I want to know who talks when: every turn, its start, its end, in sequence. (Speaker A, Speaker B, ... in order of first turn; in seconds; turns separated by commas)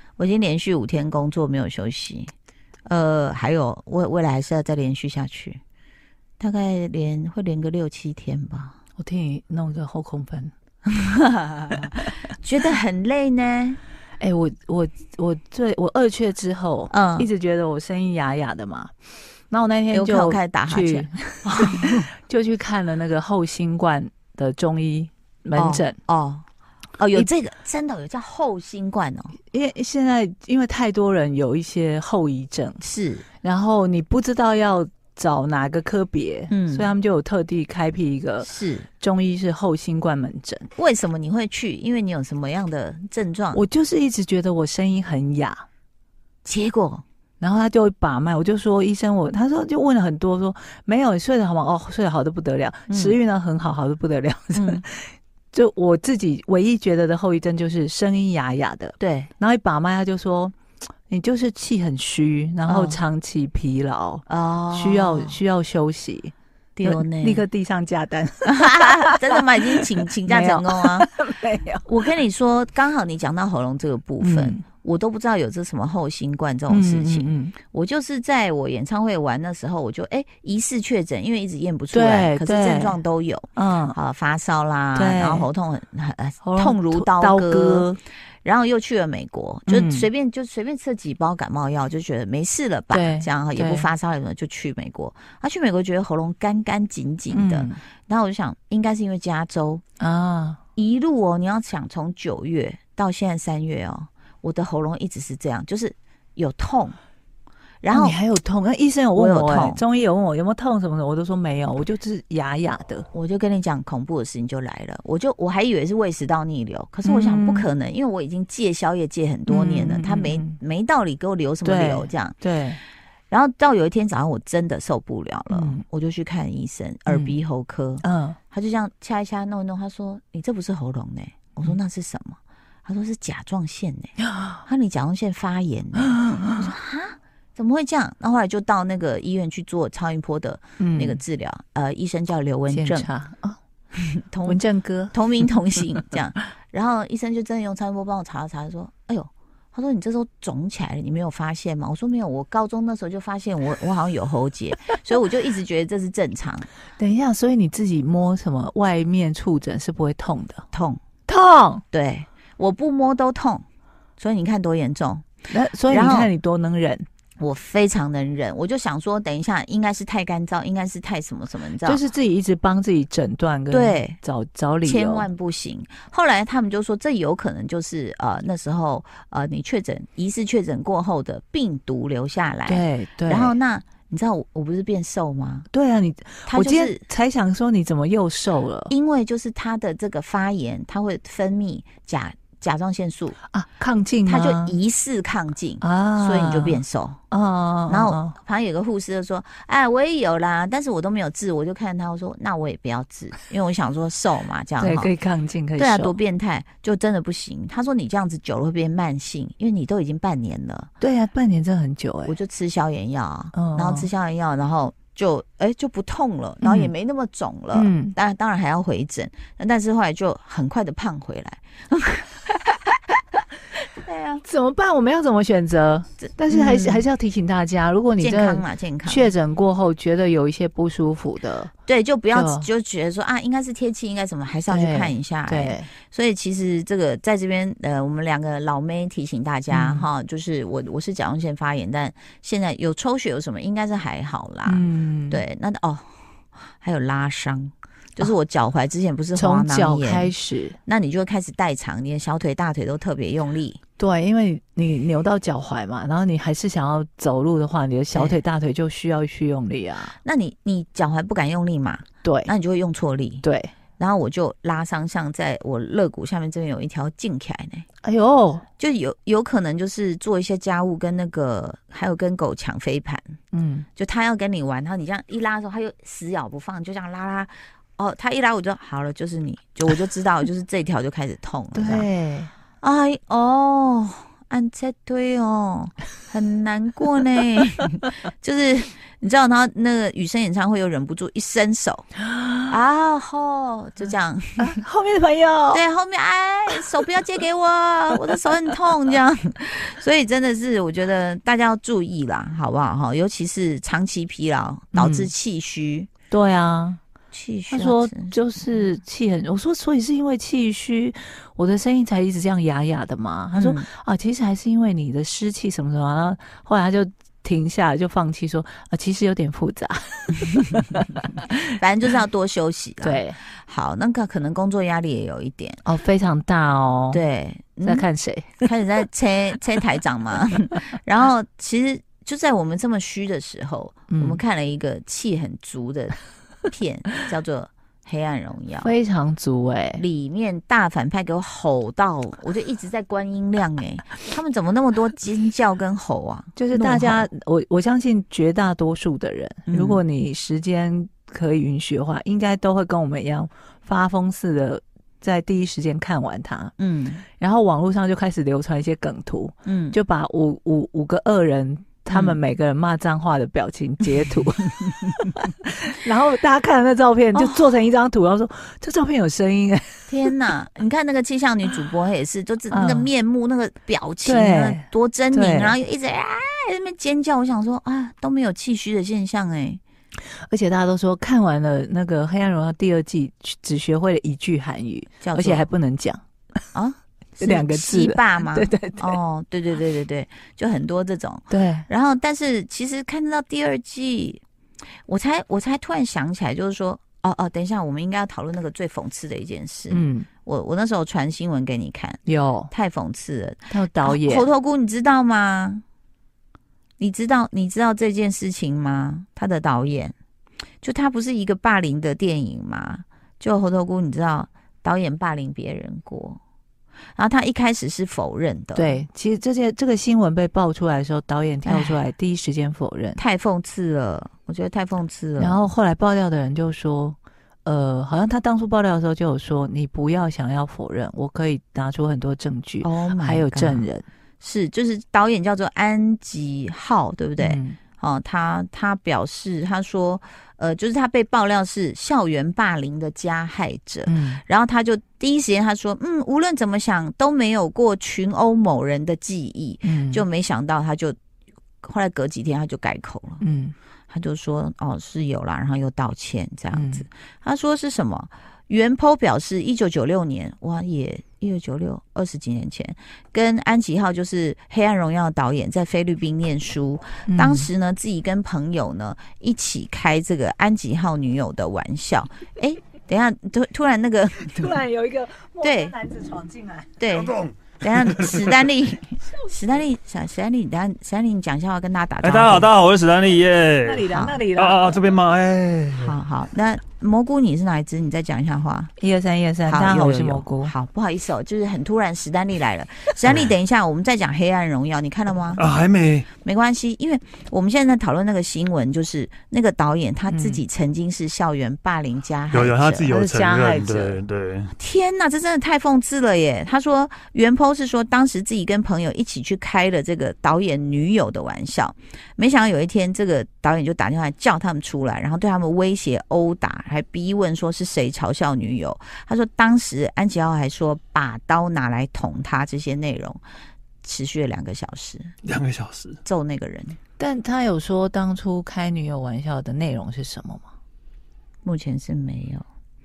Speaker A: 0.2-2.3, Speaker A: 2.9-5.6, Speaker A: 6.4-8.8, Speaker B: 9.0-10.5, Speaker A: 10.9-13.8, Speaker B: 14.2-18.9, Speaker A: 16.9-17.3, Speaker B: 19.5-26.0, Speaker A: 19.9-22.0, Speaker A: 25.5-26.4, Speaker A: 27.0-29.4, Speaker B: 29.5-32.8, Speaker A: 32.8-33.2, Speaker B: 33.4-40.7, Speaker A: 36.5-36.9, Speaker A: 38.4-38.9, Speaker A: 40.8-43.6, Speaker B: 43.5-45.6, Speaker A: 46.4-47.0, Speaker B: 47.4-60.5, Speaker A: 52.9-53.2, Speaker A: 54.5-54.8, Speaker A: 59.0-59.3, Speaker B: 61.1-72.1, Speaker A: 62.6-63.0, Speaker A: 64.3-65.4, Speaker A: 66.8-67.4, Speaker A: 68.5-71.1, Speaker A: 71.8-87.9, Speaker B: 74.2-74.6, Speaker B: 76.7-77.5, Speaker B: 81.9-83.0, Speaker B: 83.5-84.0, Speaker B: 84.9-85.5, Speaker B: 86.4-88.0, Speaker A: 88.4-99.8, Speaker B: 89.7-90.1, Speaker B: 92.9-93.9, Speaker B: 97.3-97.8, Speaker B: 100.0-100.6, Speaker A: 100.8-107.0, Speaker A: 107.8-108.2, Speaker B: 107.9-113.1, Speaker A: 109.2-109.8, Speaker A: 113.1-122.3, Speaker B: 117.0-117.7, Speaker B: 119.5-120.6, Speaker B: 121.6-122.8, Speaker A: 123.3-143.1, Speaker B: 125.5-125.8, Speaker B: 127.1-127.3, Speaker B: 128.0-128.4, Speaker B: 134.2-134.6, Speaker B: 136.0-136.7, Speaker B: 140.8-141.2, Speaker B: 142.7-143.6, Speaker A: 143.9-144.6, Speaker B: 144.4-145.1, Speaker A: 145.1-156.7, Speaker B: 157.0-160.7, Speaker A: 160.7-161.0, Speaker B: 161.3-161.8, Speaker A: 161.9-163.6, Speaker A: 164.2-165.3, Speaker B: 165.5-167.1, Speaker A: 165.9-166.3, Speaker A: 167.4-172.0, Speaker B: 171.8-175.3, Speaker A: 173.7-174.2, Speaker A: 174.8-185.7, Speaker B: 182.7-183.5, Speaker B: 185.7-188.9, Speaker A: 186.5-187.0, Speaker A: 188.9-193.4, Speaker B: 193.5-194.8, Speaker A: 194.2-197.2, Speaker B: 195.8-198.3, Speaker A: 197.9-205.1, Speaker B: 204.8-206.1, Speaker A: 205.8-210.9, Speaker B: 211.0-212.3, Speaker A: 212.2-222.9, Speaker B: 213.5-214.1, Speaker B: 216.6-216.9, Speaker B: 217.7-218.2, Speaker A: 223.8-224.4, Speaker B: 224.4-231.7, Speaker A: 226.2-227.1, Speaker A: 228.2-229.3, Speaker A: 231.9-246.1, Speaker B: 232.3-232.7, Speaker B: 234.7-235.9, Speaker B: 239.7-240.1, Speaker B: 244.7-245.4, Speaker A: 246.7-250.3, Speaker B: 249.3-250.8, Speaker A: 250.8-253.8, Speaker B: 254.0-260.1, Speaker A: 260.2-263.4, Speaker B: 262.2-262.5, Speaker B: 263.4-263.7, Speaker A: 264.0-267.9, Speaker B: 268.0-268.6, Speaker A: 268.8-273.3, Speaker B: 273.5-273.9, Speaker A: 273.9-282.1, Speaker B: 281.7-282.5, Speaker A: 282.8-292.1, Speaker B: 292.3-292.6, Speaker A: 292.7-294.8, Speaker B: 294.6-295.8, Speaker A: 295.7-306.1, Speaker B: 304.9-305.3, Speaker B: 306.3-307.0, Speaker A: 307.3-308.4, Speaker B: 307.7-321.4, Speaker A: 313.5-313.9, Speaker A: 321.4-325.8, Speaker B: 323.0-323.4, Speaker B: 325.8-327.2, Speaker A: 327.1-328.1, Speaker B: 327.9-328.7, Speaker A: 328.6-338.9, Speaker B: 334.1-334.4, Speaker B: 338.8-340.0, Speaker A: 340.0-347.3, Speaker B: 346.6-356.7, Speaker A: 349.7-350.0, Speaker A: 356.8-357.2, Speaker B: 357.3-370.3, Speaker A: 359.6-359.9, Speaker A: 362.1-362.4, Speaker A: 367.3-367.6, Speaker A: 370.1-379.8, Speaker B: 372.7-373.1, Speaker B: 374.2-375.8, Speaker B: 380.3-386.2, Speaker A: 385.2-385.6, Speaker A: 386.7-394.4, Speaker B: 387.4-389.2, Speaker B: 391.5-391.9, Speaker A: 395.1-405.8, Speaker B: 399.9-400.3, Speaker B: 402.2-402.7, Speaker B: 403.7-404.4, Speaker A: 407.0-410.1, Speaker A: 410.8-416.4, Speaker A: 417.1-419.0, Speaker B: 418.7-423.2, Speaker A: 421.6-422.0, Speaker A: 423.1-425.6, Speaker B: 425.4-434.0, Speaker A: 432.8-433.8, Speaker A: 434.4-451.1, Speaker B: 437.4-437.8, Speaker B: 444.1-444.4, Speaker B: 449.8-450.2, Speaker A: 451.8-453.4, Speaker B: 453.4-453.7, Speaker A: 454.1-474.8, Speaker B: 456.7-457.1, Speaker B: 467.3-467.7, Speaker B: 474.4-476.9, Speaker A: 475.6-475.9, Speaker A: 477.0-482.7, Speaker C: 477.1-478.6, Speaker C: 482.2-486.2, Speaker B: 483.8-485.0, Speaker A: 484.1-484.4, Speaker A: 486.0-488.9, Speaker B: 489.0-490.7, Speaker A: 489.6-495.7, Speaker C: 495.6-496.3, Speaker A: 496.4-503.1, Speaker B: 500.3-500.6, Speaker C: 502.5-504.7, Speaker B: 503.1-504.2, Speaker A: 504.8-523.4, Speaker A: 524.0-525.3, Speaker C: 525.4-526.2, Speaker A: 526.2-527.0, Speaker B: 527.2-530.7, Speaker A: 531.6-532.6